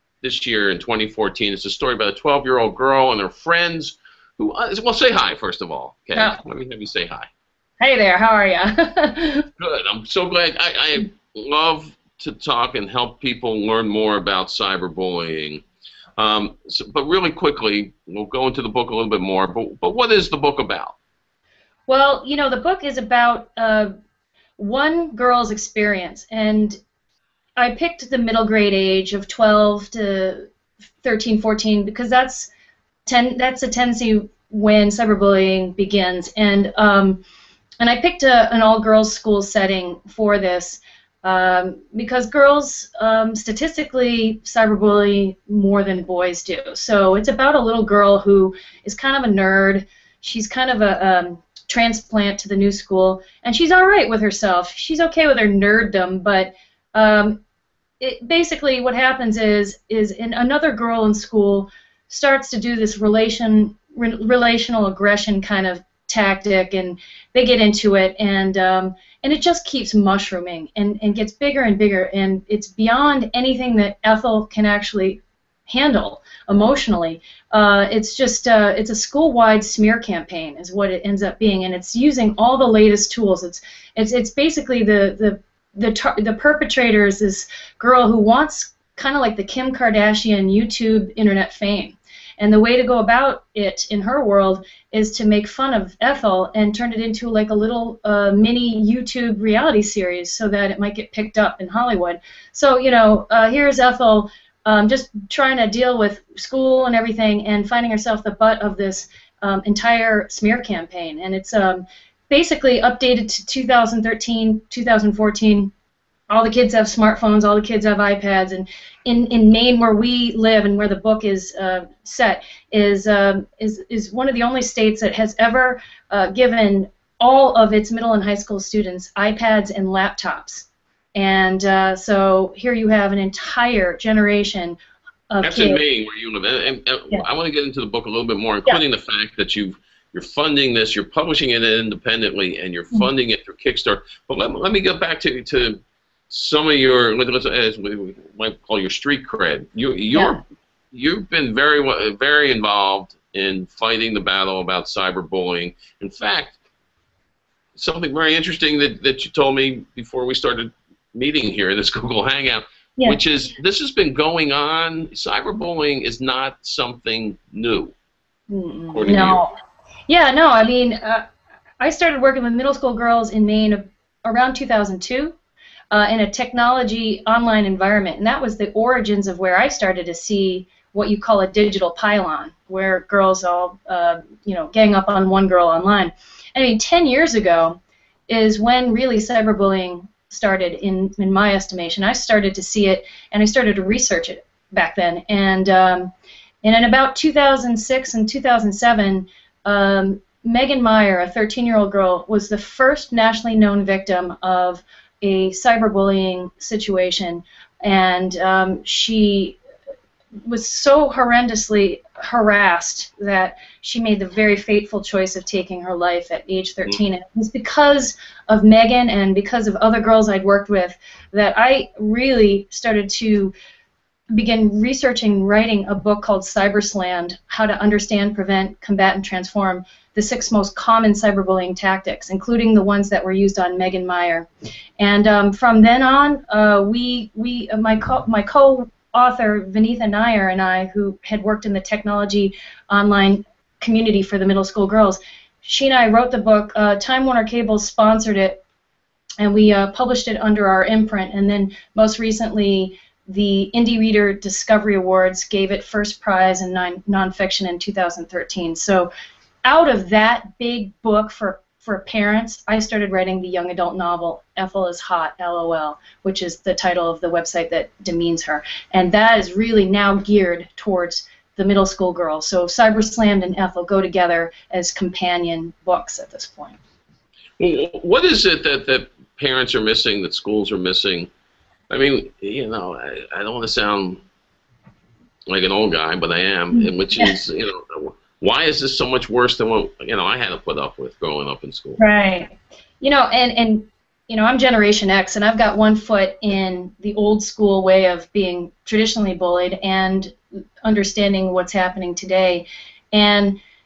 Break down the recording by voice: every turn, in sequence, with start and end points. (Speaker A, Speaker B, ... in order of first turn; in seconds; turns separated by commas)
Speaker A: 0.2-7.3, Speaker B: 6.1-6.4, Speaker B: 7.8-9.5, Speaker A: 9.6-15.6, Speaker A: 16.2-20.9, Speaker B: 21.9-23.9, Speaker B: 24.6-26.8, Speaker B: 27.6-30.5, Speaker B: 31.0-32.5, Speaker B: 33.0-37.2, Speaker B: 37.8-57.4, Speaker B: 58.0-115.7, Speaker B: 116.3-134.8, Speaker B: 135.3-135.8, Speaker A: 135.4-156.6, Speaker B: 150.1-150.4, Speaker A: 157.7-167.9, Speaker B: 168.5-169.5, Speaker A: 168.9-169.4, Speaker B: 170.1-171.2, Speaker B: 171.8-175.3, Speaker B: 175.9-196.1, Speaker B: 196.6-209.6, Speaker B: 210.4-223.5, Speaker B: 224.3-234.5, Speaker B: 235.0-248.6, Speaker B: 249.4-259.1, Speaker B: 259.6-276.8, Speaker A: 277.6-281.3, Speaker A: 281.9-284.2, Speaker A: 285.5-292.0, Speaker B: 286.7-287.4, Speaker B: 292.0-303.6